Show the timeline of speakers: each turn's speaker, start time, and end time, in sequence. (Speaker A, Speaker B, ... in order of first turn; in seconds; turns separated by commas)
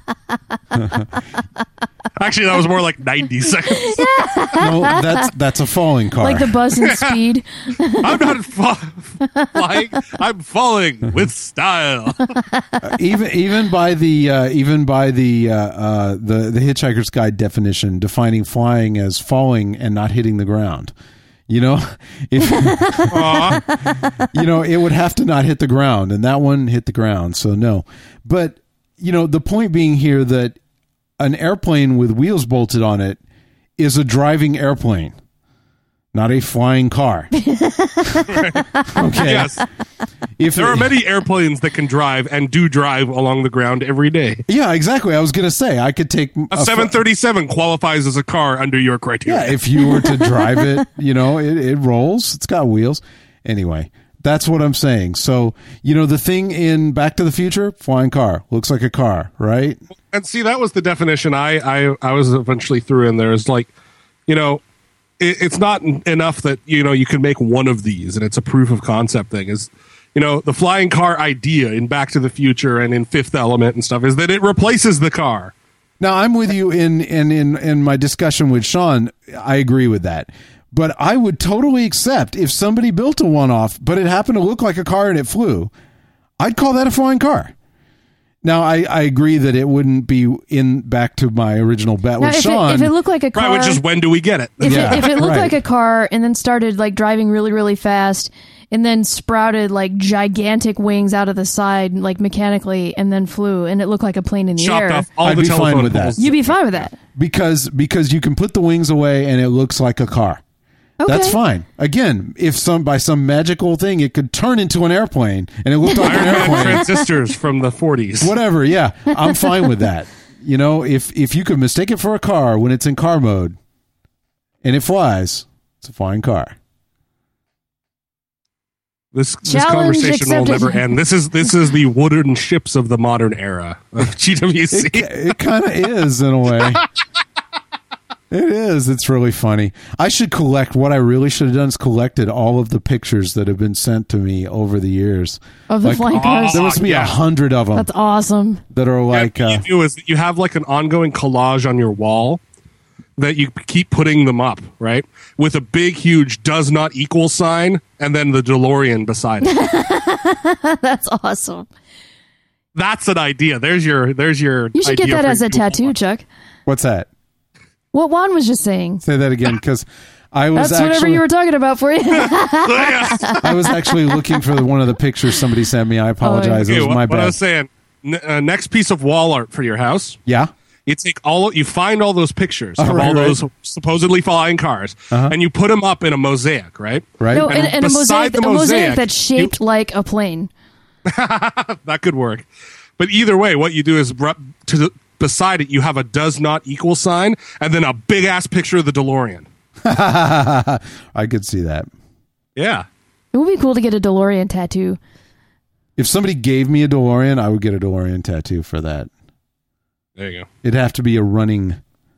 Speaker A: 0.8-1.0, Speaker B: 2.2-4.1, Speaker C: 3.7-5.3, Speaker A: 4.6-6.6, Speaker C: 6.2-8.3, Speaker B: 6.8-7.2, Speaker B: 8.0-12.3, Speaker A: 12.8-20.9, Speaker A: 21.5-30.6, Speaker C: 22.6-23.1, Speaker B: 23.1-23.6, Speaker A: 31.2-33.2, Speaker A: 33.8-35.1, Speaker A: 36.1-37.3, Speaker C: 37.4-39.0, Speaker B: 38.3-38.6, Speaker A: 38.9-39.6, Speaker B: 39.2-39.6, Speaker A: 40.4-40.9, Speaker B: 40.6-44.4, Speaker A: 44.5-47.0, Speaker B: 46.5-49.6, Speaker A: 49.3-59.8, Speaker C: 50.0-50.5, Speaker B: 60.1-63.7, Speaker B: 64.3-64.6, Speaker B: 65.2-75.5, Speaker A: 76.0-85.7, Speaker A: 86.4-87.5, Speaker A: 88.4-92.9, Speaker C: 92.2-93.8, Speaker B: 93.3-95.2, Speaker C: 94.6-105.1, Speaker A: 94.6-95.6, Speaker B: 104.6-106.8, Speaker A: 105.2-106.2, Speaker C: 106.2-107.0, Speaker A: 107.1-110.4, Speaker C: 111.0-111.4, Speaker A: 111.0-116.9, Speaker C: 115.9-116.9, Speaker B: 116.0-118.3, Speaker A: 118.2-123.6, Speaker A: 124.6-126.5, Speaker B: 129.1-135.3, Speaker C: 129.4-130.9, Speaker A: 134.7-136.8, Speaker A: 138.3-147.9, Speaker C: 145.7-146.7, Speaker B: 146.1-147.1, Speaker C: 147.7-148.6, Speaker A: 148.7-149.6, Speaker B: 149.1-152.4, Speaker B: 153.2-159.6, Speaker C: 159.4-161.7, Speaker B: 162.7-165.9, Speaker C: 164.7-166.2, Speaker A: 166.7-167.1, Speaker C: 167.9-169.0, Speaker A: 169.0-171.2, Speaker C: 170.6-174.1, Speaker B: 172.2-173.4, Speaker A: 173.4-177.4, Speaker C: 176.2-176.7, Speaker B: 176.6-180.2, Speaker A: 180.3-180.5, Speaker B: 180.9-189.5, Speaker A: 182.8-183.4, Speaker A: 187.2-187.6, Speaker C: 187.3-190.5, Speaker B: 191.1-192.4, Speaker B: 193.0-199.4, Speaker A: 199.8-201.9, Speaker B: 202.6-202.9, Speaker C: 203.3-205.0, Speaker A: 206.0-209.1, Speaker B: 210.2-210.5, Speaker A: 210.6-211.8